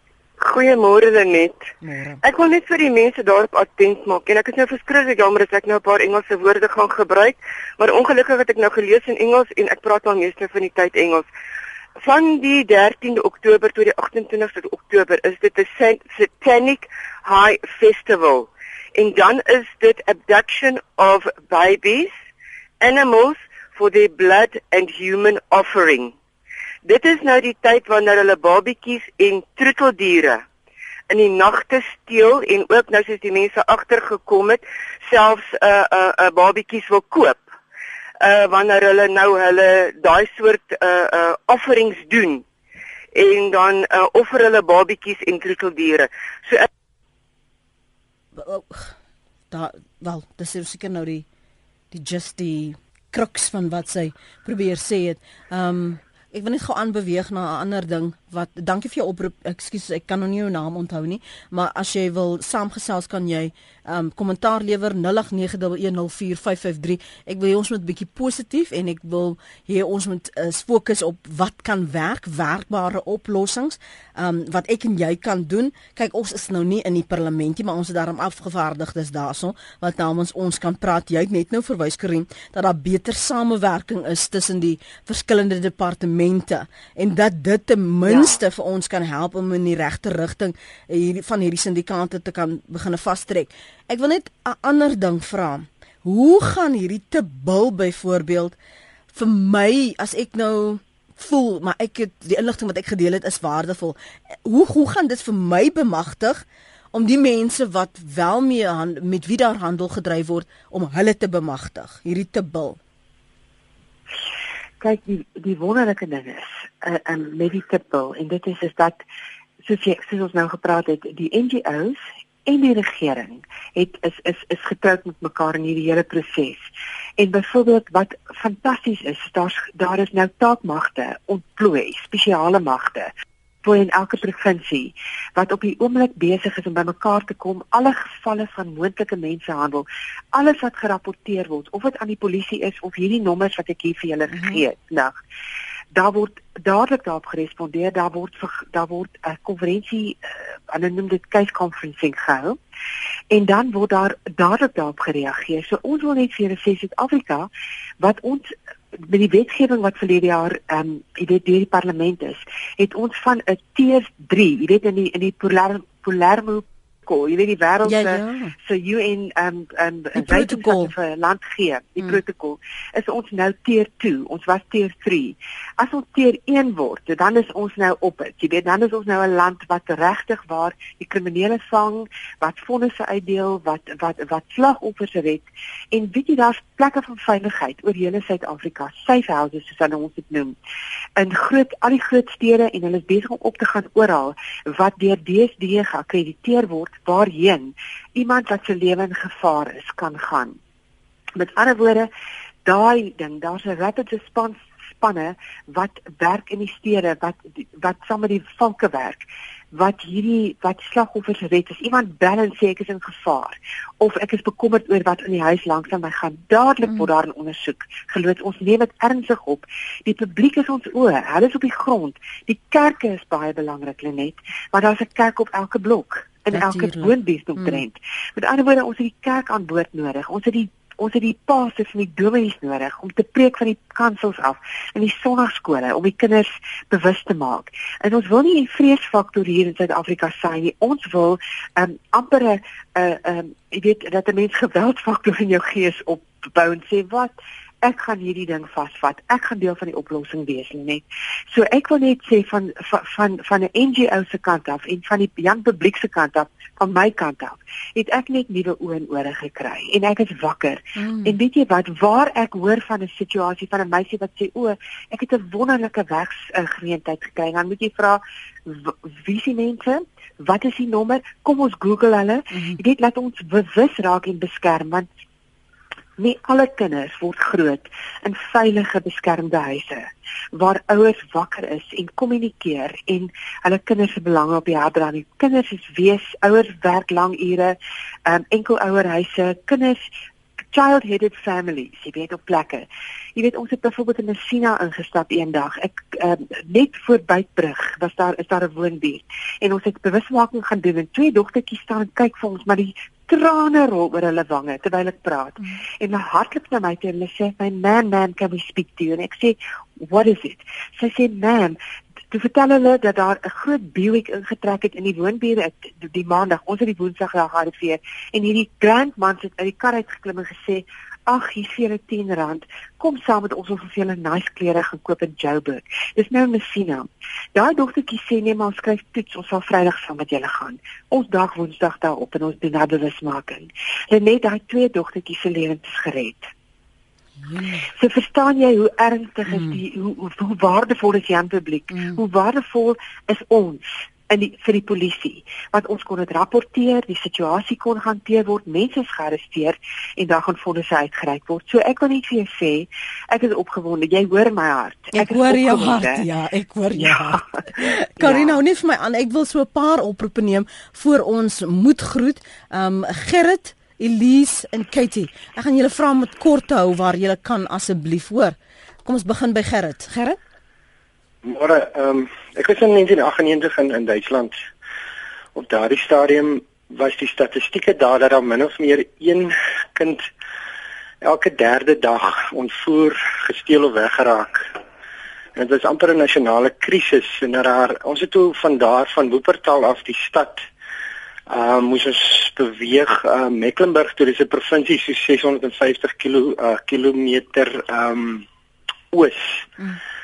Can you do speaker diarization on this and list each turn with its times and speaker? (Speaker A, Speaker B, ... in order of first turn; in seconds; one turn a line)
Speaker A: 0.4-1.7
Speaker B: 1.8-2.2
Speaker A: 2.2-11.3
Speaker A: 12.0-22.1
Speaker A: 22.8-26.1
Speaker A: 26.9-30.4
Speaker A: 31.1-37.5
Speaker A: 38.2-42.4
Speaker A: 43.1-46.7
Speaker B: 48.4-48.9
Speaker B: 49.5-51.3
Speaker B: 51.9-98.5
Speaker C: 88.1-88.4
Speaker B: 99.1-112.8
Speaker C: 114.8-119.0
Speaker C: 119.6-133.1
Speaker C: 133.6-145.1
Speaker B: 144.3-144.6
Speaker C: 145.9-152.6
Speaker C: 153.3-190.6
Speaker B: 167.8-168.5
Speaker B: 170.2-170.9
Speaker C: 191.2-200.6
Speaker C: 201.3-202.1
Speaker C: 202.7-275.1
Speaker B: 226.5-227.8
Speaker B: 261.0-261.4
Speaker B: 272.5-272.8
Speaker C: 276.2-290.1
Speaker C: 290.7-311.8
Speaker C: 312.3-336.5
Speaker B: 337.5-337.9
Speaker C: 337.9-356.3
Speaker B: 341.9-342.2
Speaker B: 355.1-370.4
Speaker C: 357.0-358.6
Speaker D: 371.4-374.6
Speaker D: 375.6-380.2
Speaker D: 381.2-384.6
Speaker D: 385.6-390.7
Speaker D: 391.5-398.4
Speaker D: 399.1-399.6